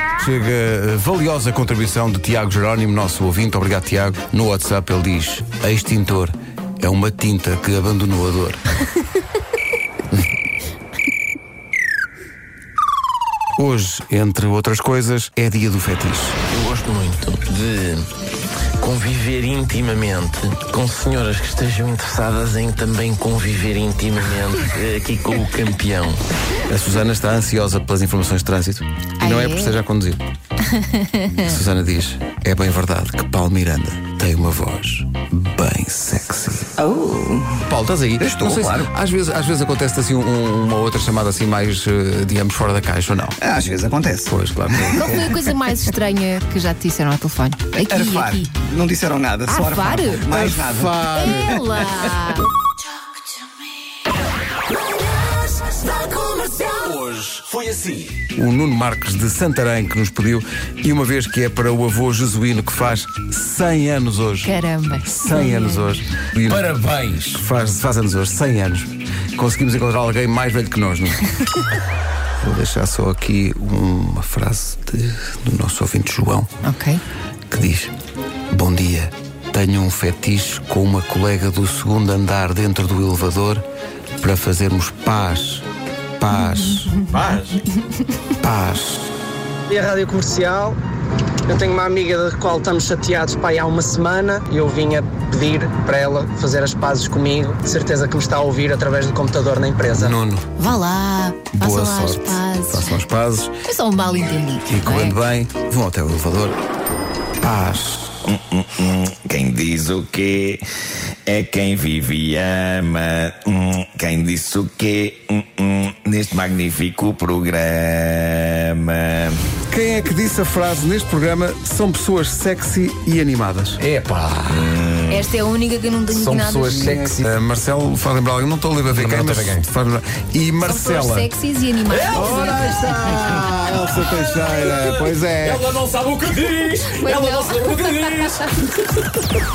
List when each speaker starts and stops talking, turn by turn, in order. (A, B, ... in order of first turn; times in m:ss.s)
0:00.2-0:08.6 A
0:13.6-0:16.4 A
0:16.5-0:18.1 B
0:18.8-0:26.2 B
0:26.7-0:30.2 A
0:29.2-0:29.8 C
0:30.7-0:31.4 C
0:31.3-0:36.8 A
0:36.8-0:37.6 D
0:37.7-0:43.4 A
0:38.2-0:38.9 D
0:43.4-0:45.2 D
0:44.3-0:45.3 A
0:44.9-0:48.5 C
0:47.9-0:51.6 D
0:49.5-0:50.3 C
0:50.3-0:51.6 A
0:51.2-0:52.5 C
0:56.7-0:58.2 B
0:58.4-1:06.8 A
1:04.4-1:05.9 C
1:06.4-1:07.4 B
1:07.3-1:11.4 A
1:12.4-1:16.5 A
1:16.6-1:17.0 C
1:17.5-1:17.9 A
1:18.5-1:23.6 A
1:24.2-1:25.7 A
1:26.2-1:27.0 A
1:27.1-1:27.6 B
1:28.4-1:29.1 A
1:29.7-1:30.8 E
1:31.5-1:40.1 E
1:39.9-1:40.4 A
1:40.6-1:43.0 C
1:41.5-1:43.5 A
1:43.7-1:45.2 C
1:44.7-1:46.6 A
1:47.4-1:48.2 A
1:48.3-1:50.6 F
1:51.3-1:59.4 F
1:59.7-2:03.8 A
2:03.8-2:04.8 G
2:04.5-2:05.2 F
2:05.1-2:07.0 C
2:06.1-2:07.3 G
2:06.7-2:11.3 A
2:08.9-2:09.7 G
2:10.6-2:13.2 C
2:11.9-2:12.8 G
2:12.1-2:15.6 A
2:13.3-2:18.5 G
2:17.0-2:18.5 C